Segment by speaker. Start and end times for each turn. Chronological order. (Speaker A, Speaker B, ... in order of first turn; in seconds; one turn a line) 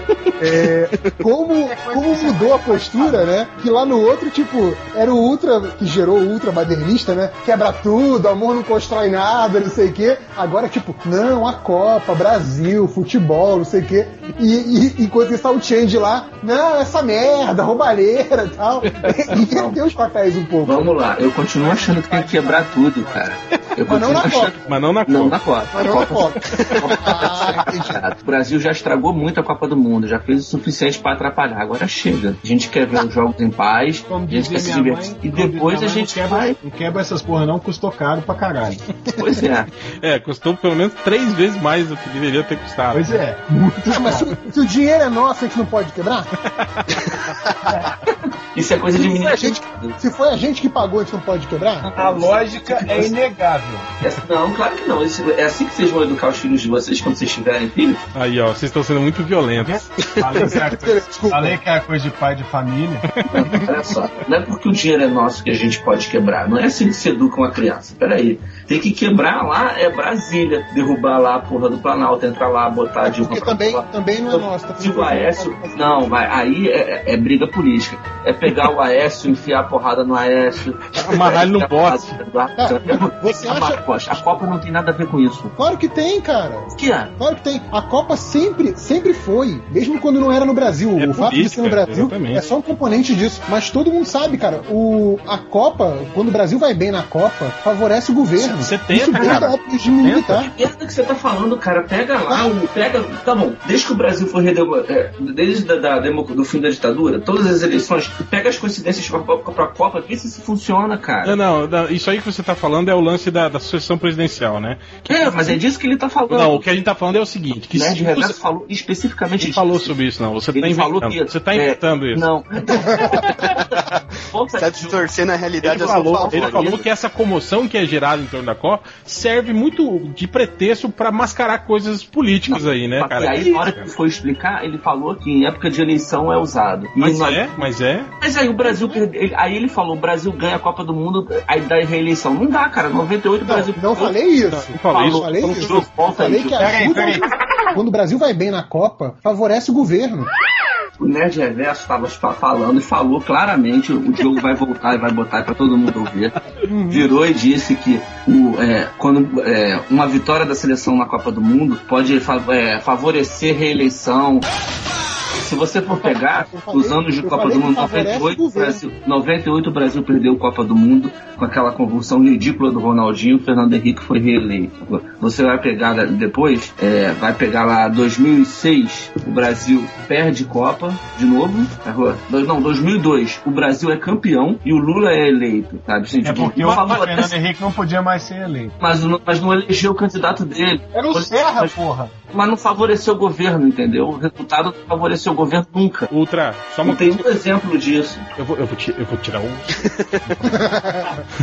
Speaker A: 0.4-20.9
Speaker B: 1.6-3.3
Speaker C: 18.9-19.2
Speaker D: 19.3-19.8
Speaker D: 20.6-36.6
Speaker A: 21.6-23.3
Speaker A: 23.8-24.7
Speaker C: 24.6-25.4
Speaker A: 25.7-28.0
Speaker E: 25.8-27.2
Speaker B: 34.1-38.8
Speaker D: 39.2-39.7
Speaker C: 40.0-43.2
Speaker B: 42.9-44.3
Speaker A: 43.9-46.3
Speaker C: 46.5-47.1
Speaker D: 48.5-50.0
Speaker A: 48.9-51.9
Speaker D: 51.8-53.1
Speaker B: 51.9-53.9
Speaker D: 54.0-58.0
Speaker C: 58.1-59.9
Speaker B: 59.5-63.1
Speaker A: 60.4-61.6
Speaker D: 63.3-85.5
Speaker A: 73.1-76.2
Speaker C: 81.0-82.2
Speaker A: 82.6-83.8
Speaker A: 85.5-100.5
Speaker D: 86.7-87.1
Speaker C: 91.0-92.4
Speaker C: 98.4-100.5
Speaker D: 100.4-111.4
Speaker C: 111.2-115.6
Speaker D: 115.1-116.6
Speaker C: 116.3-118.4
Speaker D: 117.7-119.9
Speaker C: 119.4-122.3
Speaker D: 120.5-125.0
Speaker E: 123.4-123.9
Speaker E: 124.5-126.9
Speaker C: 125.6-133.9
Speaker D: 125.9-126.7
Speaker D: 132.5-137.4
Speaker C: 137.0-138.1
Speaker D: 138.2-144.2
Speaker A: 138.6-139.0
Speaker A: 143.4-150.3
Speaker C: 144.5-145.8
Speaker D: 144.9-147.0
Speaker B: 146.6-147.2
Speaker D: 151.0-156.4
Speaker A: 156.7-157.1
Speaker D: 156.9-164.4
Speaker D: 165.3-187.3
Speaker A: 166.0-168.8
Speaker B: 186.2-188.7
Speaker D: 188.8-191.8
Speaker B: 190.9-192.1
Speaker D: 192.3-196.1
Speaker C: 196.1-197.2
Speaker D: 196.8-198.3
Speaker C: 198.3-200.6
Speaker A: 200.4-201.1